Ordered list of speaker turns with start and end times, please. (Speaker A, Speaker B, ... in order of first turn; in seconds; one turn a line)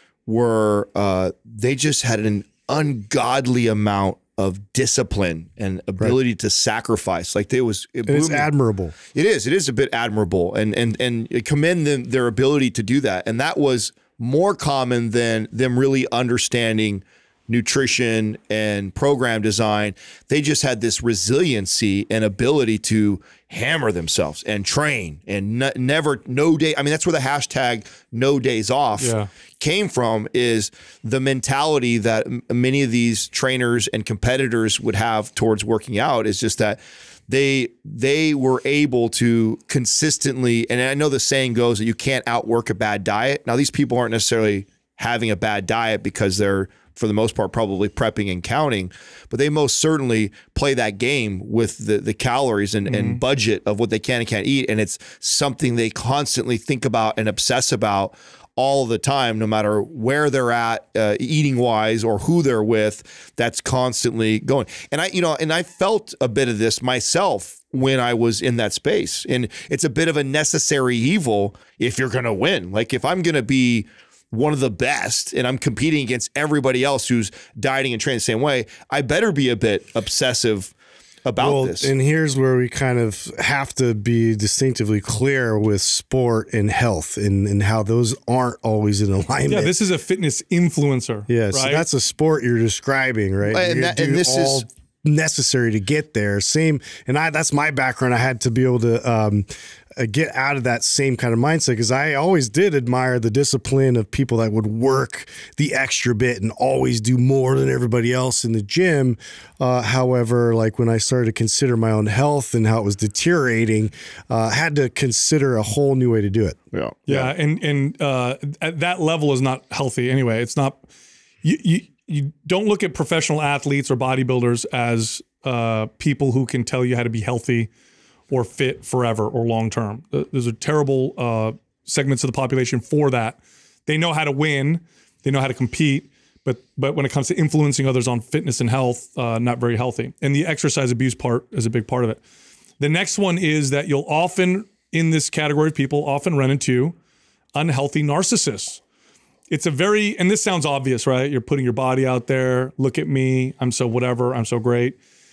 Speaker A: 0.3-8.5
Speaker B: 8.1-9.0
Speaker A: 9.1-80.7
Speaker C: 29.0-29.3
Speaker C: 52.9-53.2
Speaker A: 81.2-81.9
Speaker B: 81.4-89.8
Speaker C: 89.5-91.8
Speaker B: 91.3-116.6
Speaker A: 93.5-94.7
Speaker A: 116.7-117.3
Speaker C: 117.1-120.9
Speaker C: 121.4-127.7
Speaker C: 128.3-142.2
Speaker C: 142.8-147.0
Speaker C: 147.6-148.8
Speaker C: 149.5-155.0